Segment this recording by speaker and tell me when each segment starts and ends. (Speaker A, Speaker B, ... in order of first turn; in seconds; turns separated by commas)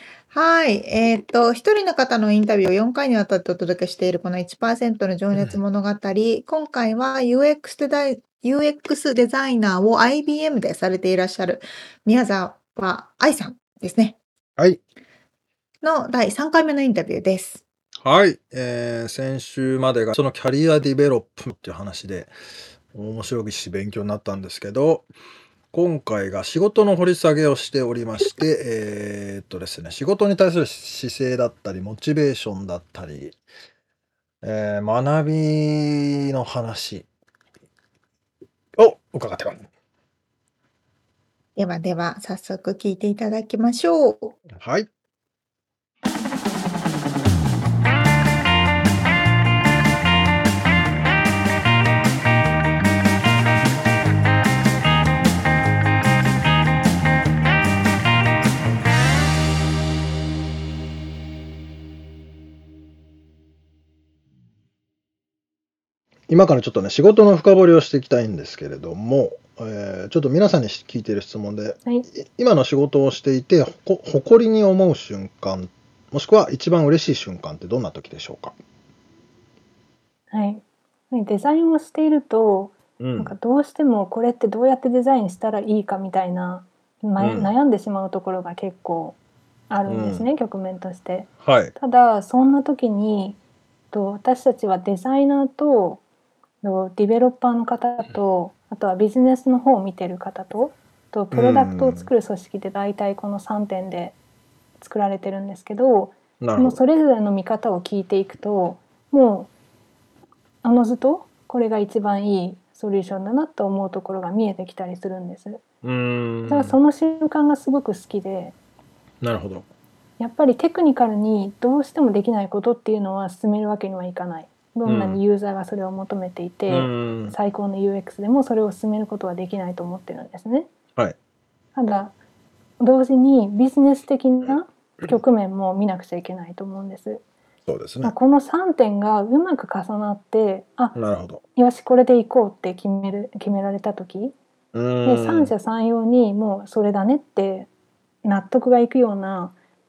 Speaker A: 0.3-14.2, Speaker A: 15.8-17.6, Speaker B: 18.0-22.3, Speaker B: 22.9-25.1, Speaker B: 25.7-33.4, Speaker B: 34.4-37.1, Speaker B: 38.8-39.6, Speaker A: 41.5-44.4, Speaker B: 44.5-44.9, Speaker B: 66.3-78.5, Speaker C: 80.3-89.2, Speaker B: 83.0-83.3, Speaker B: 87.2-87.5, Speaker C: 89.7-93.4, Speaker B: 89.8-90.3, Speaker B: 91.4-91.7, Speaker C: 93.9-96.0, Speaker C: 96.6-104.2, Speaker B: 101.3-102.1, Speaker C: 104.8-109.5, Speaker B: 106.4-106.8, Speaker C: 110.6-115.6, Speaker B: 115.8-116.8, Speaker C: 116.5-118.5, Speaker B: 119.2-119.7, Speaker C: 120.2-130.7, Speaker B: 124.8-125.2, Speaker B: 126.7-127.3, Speaker C: 131.7-132.1, Speaker C: 132.8-137.2, Speaker B: 137.7-138.1, Speaker C: 138.0-140.9, Speaker B: 140.9-141.4, Speaker C: 141.6-144.3, Speaker B: 144.7-145.5, Speaker C: 145.0-147.7, Speaker C: 148.2-149.5